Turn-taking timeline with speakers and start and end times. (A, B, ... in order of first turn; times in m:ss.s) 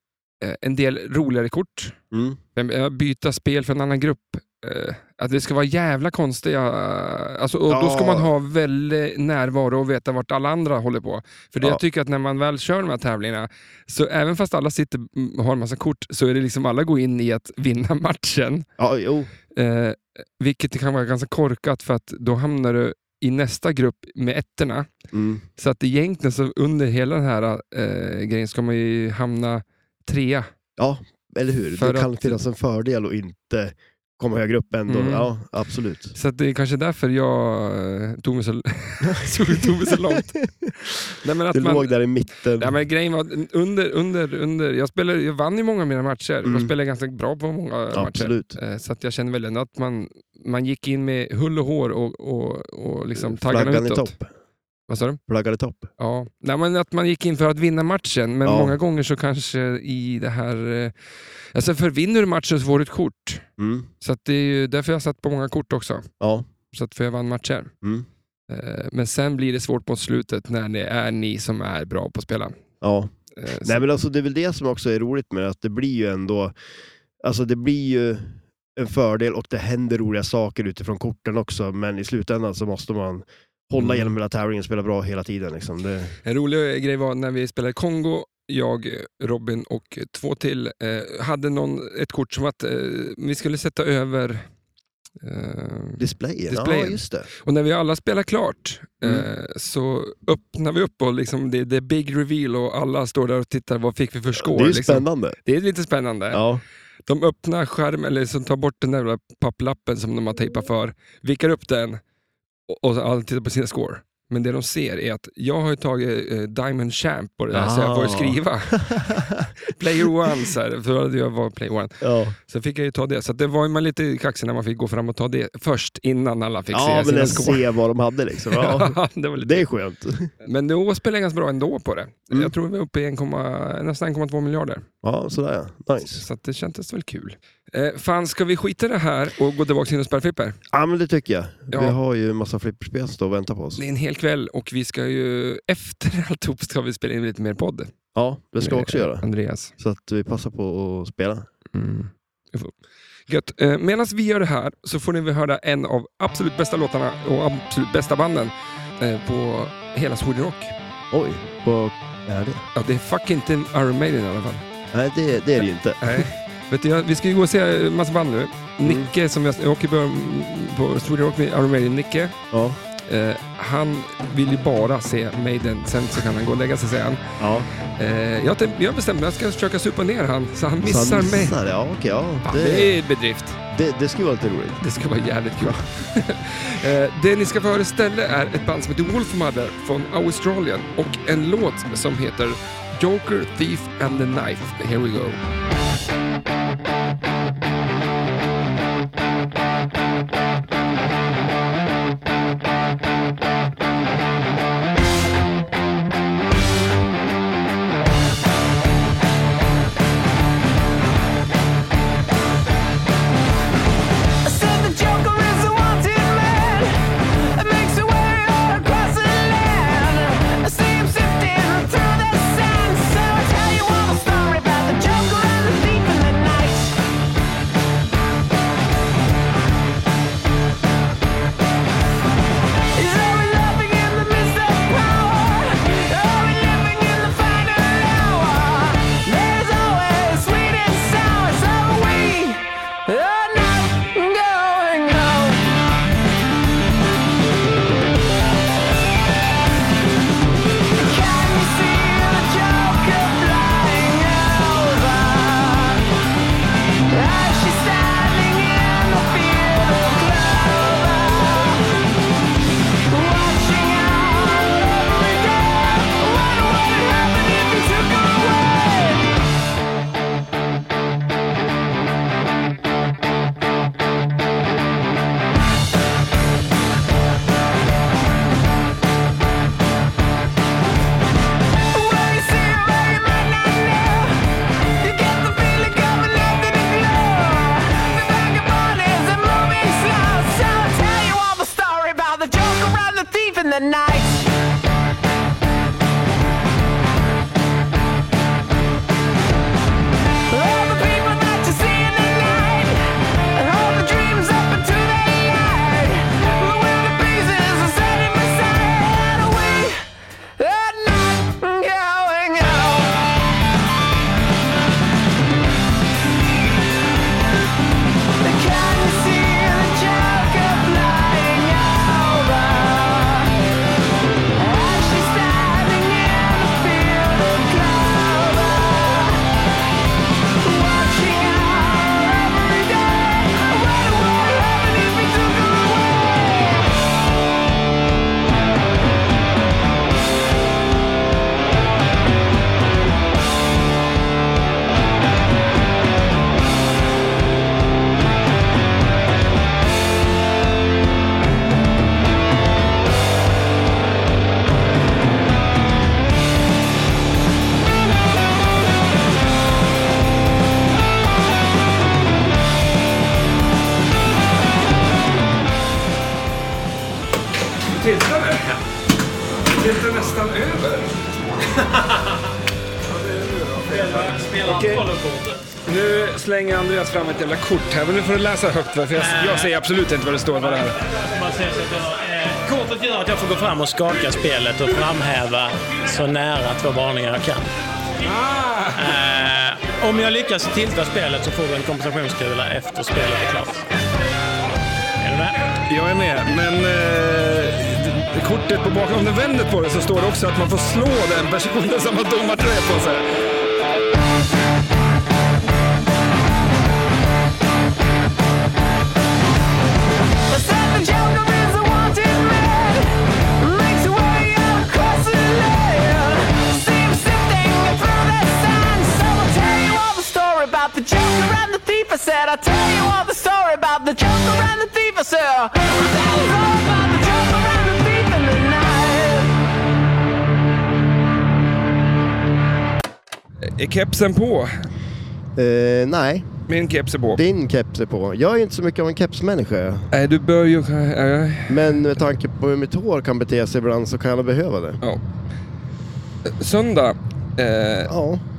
0:00.4-0:02.0 A
0:02.1-0:02.4 B
0:02.6-0:18.6 A
0:07.7-0:08.3 B
0:18.8-0:19.3 B
0:19.5-0:24.9 A
0:25.1-0:25.4 B
0:25.6-0:30.5 A
0:30.8-0:36.1 B
0:31.8-0:32.4 A
0:34.9-0:35.3 A
0:36.1-0:40.3 A
0:39.0-0:40.8 B
0:41.2-0:42.0 A
0:41.5-0:42.8 B
0:42.6-0:54.1 A
0:46.4-0:46.7 B
0:47.9-0:48.6 B
0:53.2-0:54.3 B
0:54.9-0:55.2 A
0:55.3-0:55.9 B
0:56.0-1:00.9 A
0:58.4-0:58.7 B
1:01.5-1:03.4 A
1:03.6-1:03.9 B
1:04.0-1:06.1 A
1:06.2-1:06.5 B
1:06.7-1:07.7 A
1:07.8-1:08.1 B
1:08.5-1:12.6 A
1:12.8-1:16.5 B
1:13.4-1:13.8 A
1:17.2-1:26.1 B
1:23.8-1:24.1 A
1:26.2-1:34.4 A
1:35.2-1:46.4 A
1:36.0-1:37.3 B
1:44.3-1:45.4 B
1:46.3-1:46.6 B
1:47.0-1:52.0 A
1:52.7-1:58.9 A
1:57.5-1:59.5 B
1:59.6-2:07.7 A
2:02.0-2:02.4 B
2:06.7-2:10.3 B
2:08.5-2:09.7 A
2:10.4-2:14.8 A
2:15.0-2:16.2 B
2:16.1-2:20.6 A
2:20.7-2:23.8 B
2:21.7-2:22.0 A
2:23.8-2:27.9 A
2:28.1-2:29.2 B
2:28.6-2:29.7 A
2:29.8-2:31.5 B
2:31.7-2:32.7 A
2:33.3-2:40.7 A
2:41.1-2:42.6 B
2:42.7-2:44.6 A
2:44.9-2:46.2 B
2:46.0-2:52.3 A
2:48.8-2:49.1 B
2:52.5-2:52.8 B
2:53.0-2:57.3 A
2:57.4-2:57.7 B
2:57.9-3:01.6 A
3:00.8-3:03.0 B
3:02.4-3:03.6 A
3:03.7-3:04.8 B
3:04.8-3:15.4 A
3:34.4-3:47.0 C
3:53.0-4:05.7 C
4:10.9-4:16.0 C
4:17.1-4:21.8 C
4:23.1-4:29.4 C
4:41.9-4:54.5 C
5:00.5-5:10.0 C
5:10.6-5:13.3 C
5:18.4-5:23.5 C
5:24.6-5:29.5 C
5:30.6-5:36.9 C
6:07.9-6:08.8 A
6:09.6-6:11.1 A
6:13.1-6:15.1 A
6:13.9-6:15.7 D
6:15.8-6:21.0 A
6:19.1-6:19.7 D
6:20.6-6:27.6 D
6:28.2-6:29.2 A
6:28.9-6:33.8 D
6:35.2-6:35.6 D
6:35.8-6:43.3 A
6:50.5-7:09.5 C
7:13.6-7:14.9 A
7:15.6-7:16.5 B
7:16.7-7:17.4 A
7:17.3-7:20.1 B
7:20.1-7:22.0 A
7:21.7-7:25.0 B
7:26.4-7:28.1 A
7:28.1-7:28.4 B